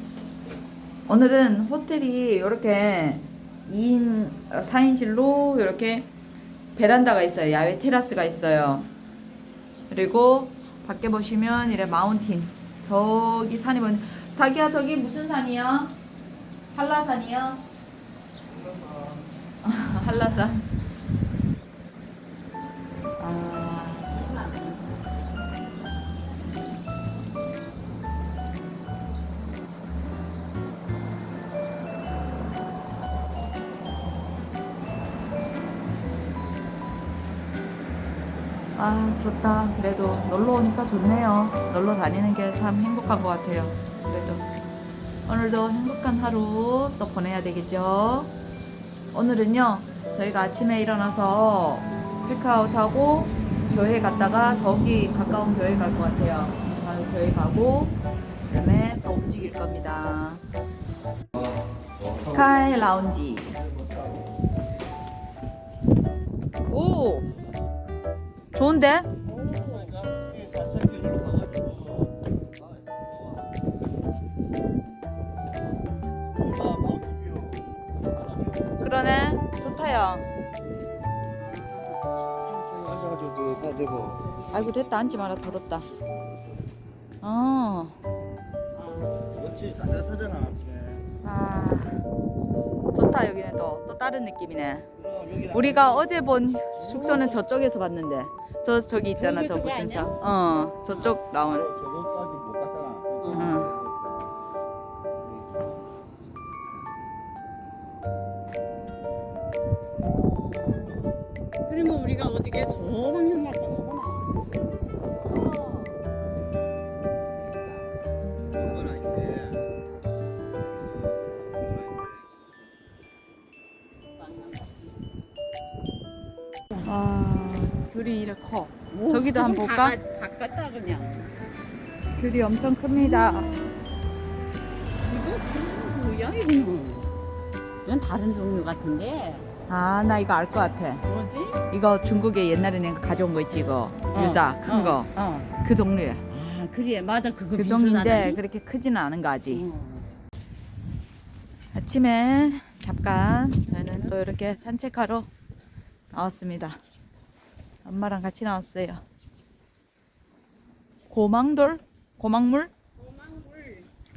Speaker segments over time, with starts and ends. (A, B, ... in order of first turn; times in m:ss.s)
0:01.1-0:06.1 A
0:06.7-0:08.9 A
0:09.9-0:16.0 A
0:16.7-0:17.6 A
0:19.6-0:20.7 A
0:23.2-0:24.2 A
0:24.1-0:24.8 B
0:38.7-0:44.4 A
0:45.3-0:48.3 A
0:49.1-1:00.4 A
1:02.1-1:03.6 A
1:06.7-1:07.3 A
1:08.5-1:09.1 A
1:09.2-1:10.0 B
1:10.3-1:11.9 C
1:16.5-1:17.6 C
1:18.3-1:18.7 C
1:18.8-1:20.3 A
1:21.4-1:22.0 B
1:22.6-1:24.1 C
1:24.5-1:25.9 A
1:27.2-1:28.0 A
1:28.7-1:29.3 B
1:29.4-1:31.0 C
1:31.2-1:32.0 A
1:32.9-1:34.9 A
1:35.0-1:35.5 C
1:35.4-1:41.8 A
1:36.8-1:37.4 B
1:39.1-1:40.1 B
1:41.7-1:44.0 C
1:43.2-1:43.7 B
1:43.3-1:43.8 A
1:50.4-1:51.1 B
1:51.7-1:54.6 B
1:55.2-1:56.0 B
1:58.7-1:59.6 C
2:04.1-2:05.0 B
2:06.8-2:10.0 A
2:08.9-2:11.4 B
2:12.1-2:13.5 A
2:12.9-2:13.8 B
2:15.1-2:17.1 B
2:17.8-2:19.5 B
2:19.7-2:21.0 A
2:21.0-2:21.6 B
2:21.7-2:26.2 A
2:24.1-2:25.5 B
2:26.3-2:28.4 B
2:27.5-2:29.6 A
2:29.5-2:30.1 B
2:31.7-2:35.3 A
2:33.7-2:34.2 B
2:36.1-2:36.8 A
2:37.8-2:39.0 A
2:41.1-2:42.7 A
2:43.0-2:43.9 B